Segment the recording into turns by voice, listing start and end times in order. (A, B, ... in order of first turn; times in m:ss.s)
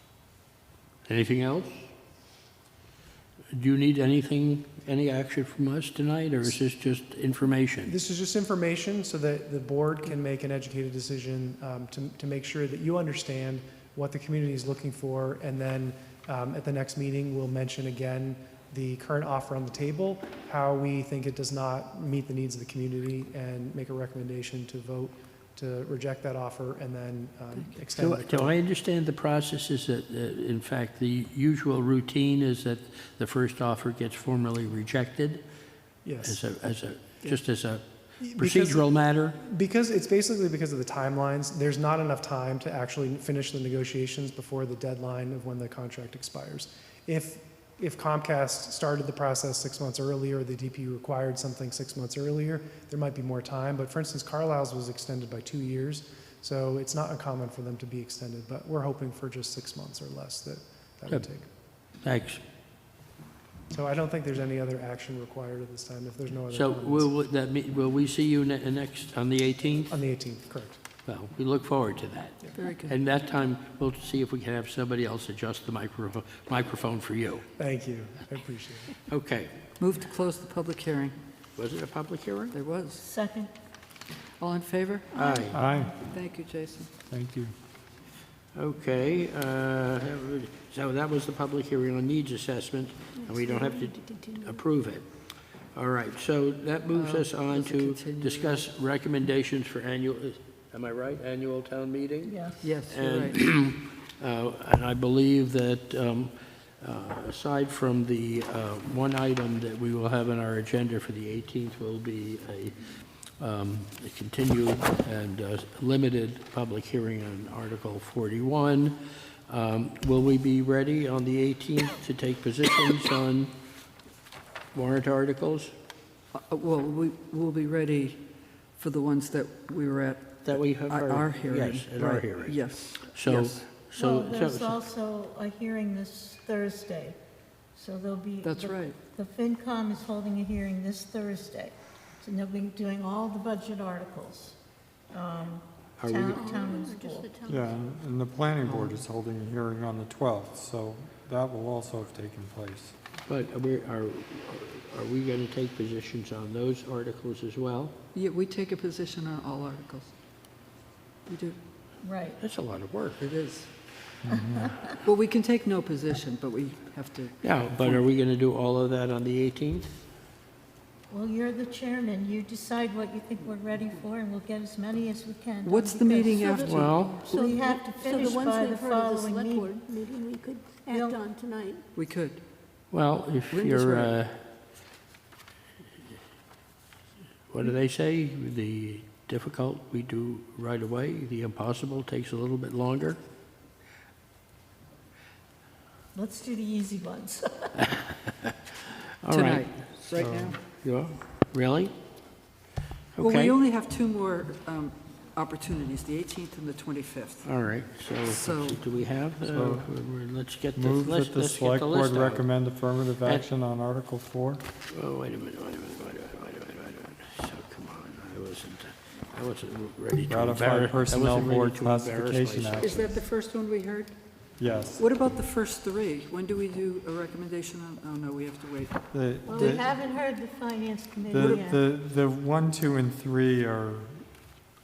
0:01.1-0:01.9 A
0:03.5-0:08.0 A
0:07.9-0:28.6 B
0:27.5-0:27.8 C
0:28.0-0:35.4 A
0:36.0-0:36.4 B
0:36.2-0:39.4 A
0:38.2-1:01.5 B
1:02.0-1:02.4 A
1:03.7-1:07.1 B
1:06.5-1:10.0 A
1:09.9-1:10.8 B
1:11.1-1:17.4 A
1:12.6-1:13.0 C
1:17.6-1:19.0 B
1:19.1-1:19.5 A
1:19.8-1:21.2 C
1:21.6-1:22.6 A
1:22.5-1:23.0 C
1:23.0-1:23.5 D
1:24.4-1:25.2 C
1:25.1-1:25.6 E
1:25.2-1:25.6 A
1:25.5-1:25.9 F
1:25.8-1:26.9 C
1:27.1-1:27.5 F
1:28.6-1:35.0 A
1:33.2-1:34.6 E
1:35.7-1:59.0 A
1:36.9-1:38.7 C
1:42.2-1:42.8 D
1:42.6-1:43.4 C
1:59.5-2:03.5 A
2:04.7-2:05.7 A
2:06.3-2:08.2 C
2:08.7-2:13.6 C
2:10.4-2:14.8 A
2:13.9-2:17.2 D
2:17.8-2:24.6 D
2:18.4-2:19.0 C
2:25.1-2:27.3 D
2:26.0-2:26.6 A
2:26.3-2:27.8 E
2:27.5-2:33.0 F
2:28.6-2:29.0 C
2:33.3-2:37.9 A
2:38.1-2:40.1 C
2:41.3-2:41.6 C
2:42.0-2:42.4 D
2:42.4-2:43.3 A
2:43.2-2:43.7 C
2:44.2-2:44.7 F
2:45.0-2:48.0 C
2:47.4-2:49.9 A
2:51.1-2:59.8 D
2:55.6-2:57.6 C
2:56.6-2:57.3 A
2:57.6-3:01.8 E
3:00.9-3:01.2 D
3:02.0-3:02.4 C
3:02.9-3:04.4 A
3:03.5-3:04.2 C
3:07.5-3:13.2 A
3:16.1-3:17.8 D
3:18.0-3:18.5 A
3:19.2-3:19.7 A
3:19.3-3:20.6 C
3:20.1-3:20.6 F
3:20.8-3:21.9 A
3:23.2-3:23.6 A
3:23.2-3:27.5 C
3:27.4-3:32.5 A
3:28.3-3:28.8 C
3:29.5-3:29.9 F
3:30.8-3:34.6 F
3:34.9-3:43.1 A
3:40.3-3:43.1 F
3:42.8-3:44.1 C
3:44.6-3:45.1 F
3:45.0-3:49.8 C
3:49.1-3:49.9 F
3:49.4-3:51.8 D
3:51.3-3:54.5 F